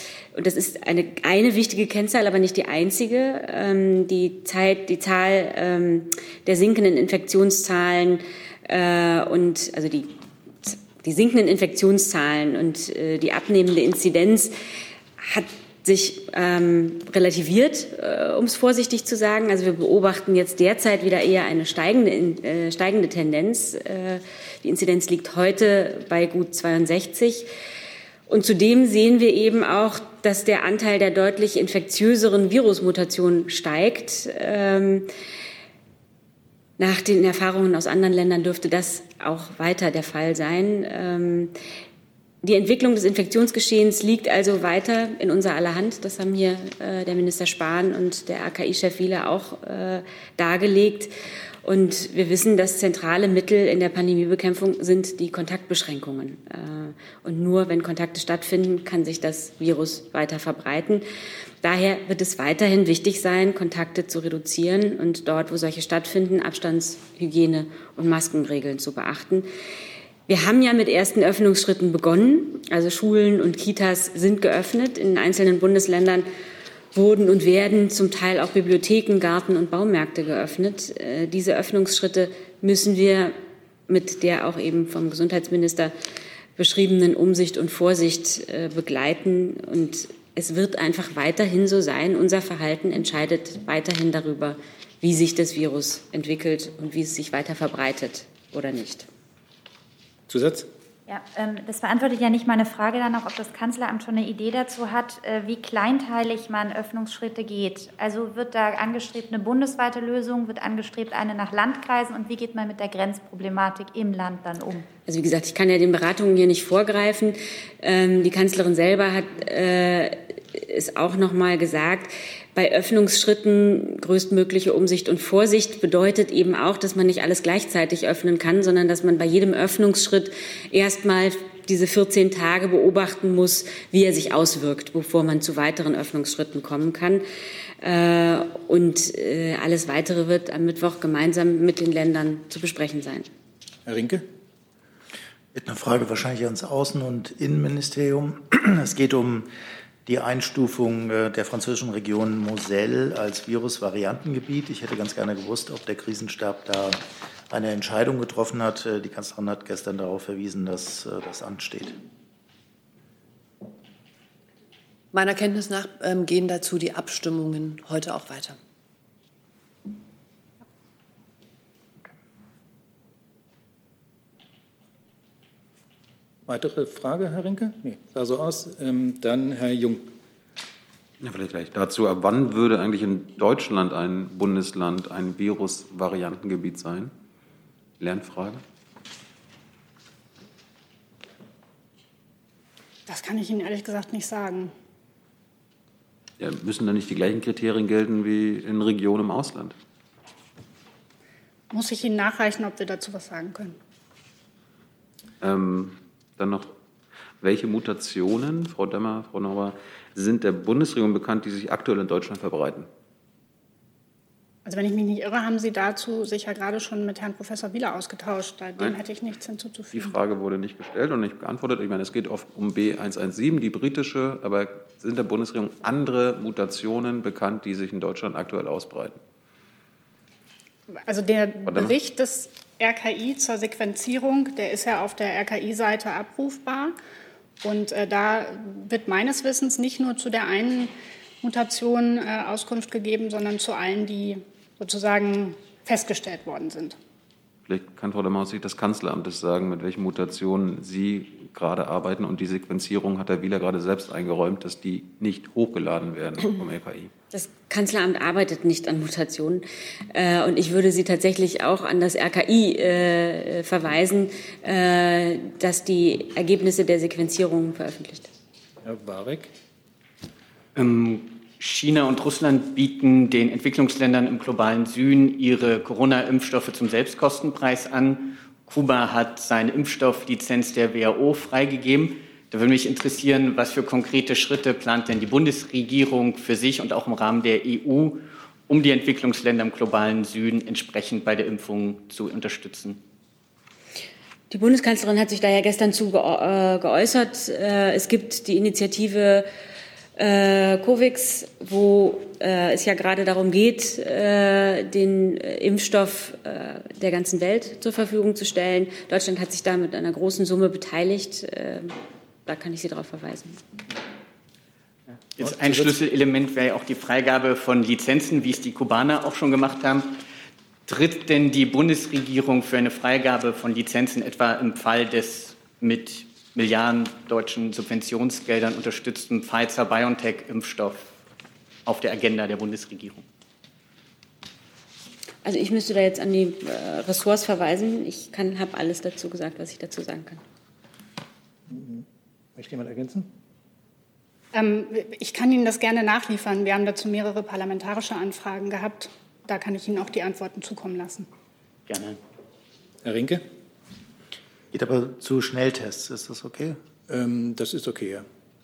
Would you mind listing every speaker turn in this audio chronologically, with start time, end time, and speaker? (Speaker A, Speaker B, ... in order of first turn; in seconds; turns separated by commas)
Speaker A: 0.3-10.1, Speaker A: 10.6-14.5, Speaker A: 15.2-27.5, Speaker A: 28.3-35.1, Speaker A: 36.8-41.5, Speaker A: 42.4-51.1, Speaker A: 51.6-61.0, Speaker A: 61.6-69.5, Speaker A: 70.3-76.3, Speaker A: 76.9-83.3, Speaker A: 83.9-85.9, Speaker A: 86.6-99.1, Speaker B: 100.3-100.7, Speaker C: 101.1-114.9, Speaker A: 115.1-137.2, Speaker A: 137.8-143.3, Speaker B: 143.9-144.2, Speaker D: 145.5-149.5, Speaker D: 150.1-162.0, Speaker E: 165.1-168.6, Speaker B: 176.5-180.1, Speaker F: 181.2-187.1, Speaker F: 188.0-188.6, Speaker G: 193.1-194.7, Speaker F: 196.4-199.8, Speaker G: 201.7-203.8, Speaker F: 205.4-206.7, Speaker F: 207.4-212.9, Speaker G: 214.7-220.2, Speaker F: 219.9-229.2, Speaker G: 231.0-237.0, Speaker F: 231.7-232.0, Speaker G: 237.6-247.0, Speaker F: 247.7-257.1, Speaker A: 257.3-268.3, Speaker B: 268.8-269.5, Speaker H: 270.8-293.0, Speaker A: 294.5-299.5, Speaker A: 300.2-313.6, Speaker H: 315.4-320.2, Speaker B: 315.4-316.0, Speaker H: 320.9-331.1, Speaker H: 331.9-333.3, Speaker A: 335.4-340.4, Speaker B: 341.7-343.3, Speaker G: 344.5-351.3, Speaker H: 351.9-352.2, Speaker B: 353.0-353.4, Speaker D: 354.7-356.8, Speaker B: 357.1-358.3